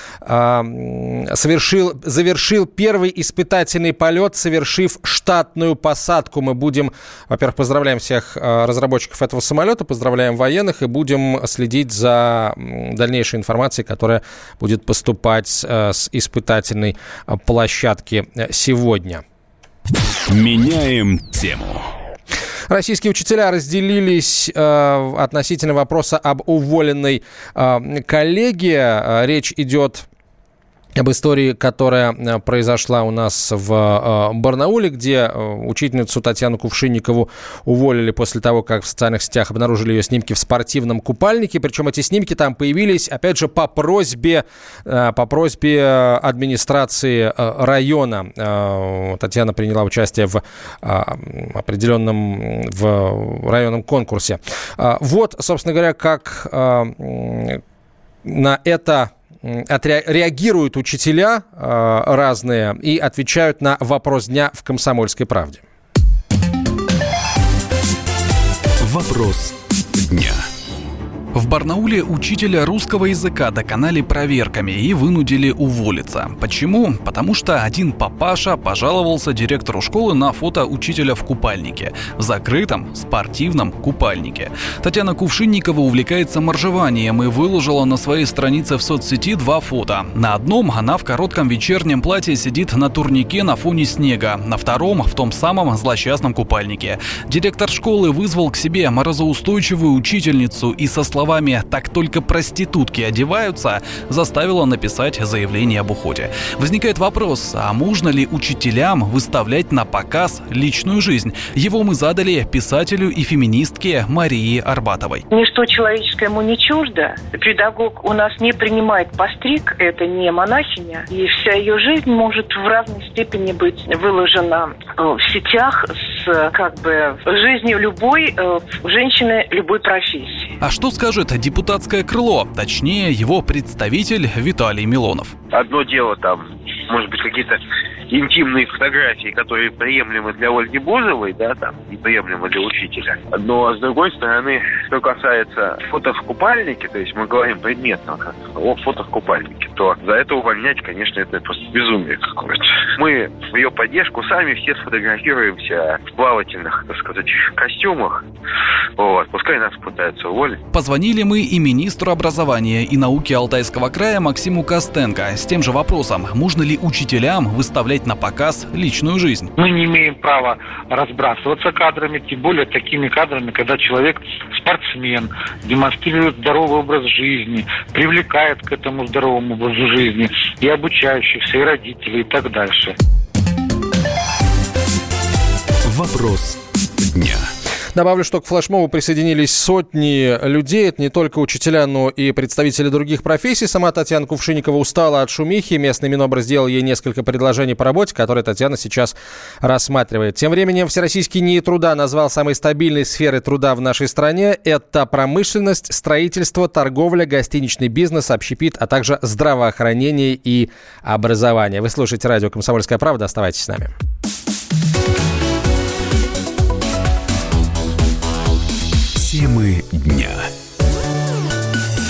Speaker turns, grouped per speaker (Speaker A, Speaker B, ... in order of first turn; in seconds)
Speaker A: 0.2-19.2, 22.7-30.1, 31.0-57.6, 58.3-65.6, 187.9-213.9
Speaker B: 20.3-21.9, 68.8-70.5, 185.9-187.5, 219.2-220.5
Speaker C: 71.3-115.2, 130.6-135.3, 160.7-169.5
Speaker D: 115.3-130.5
Speaker E: 135.5-137.6, 138.1-158.2, 159.0-160.6
Speaker F: 169.6-182.9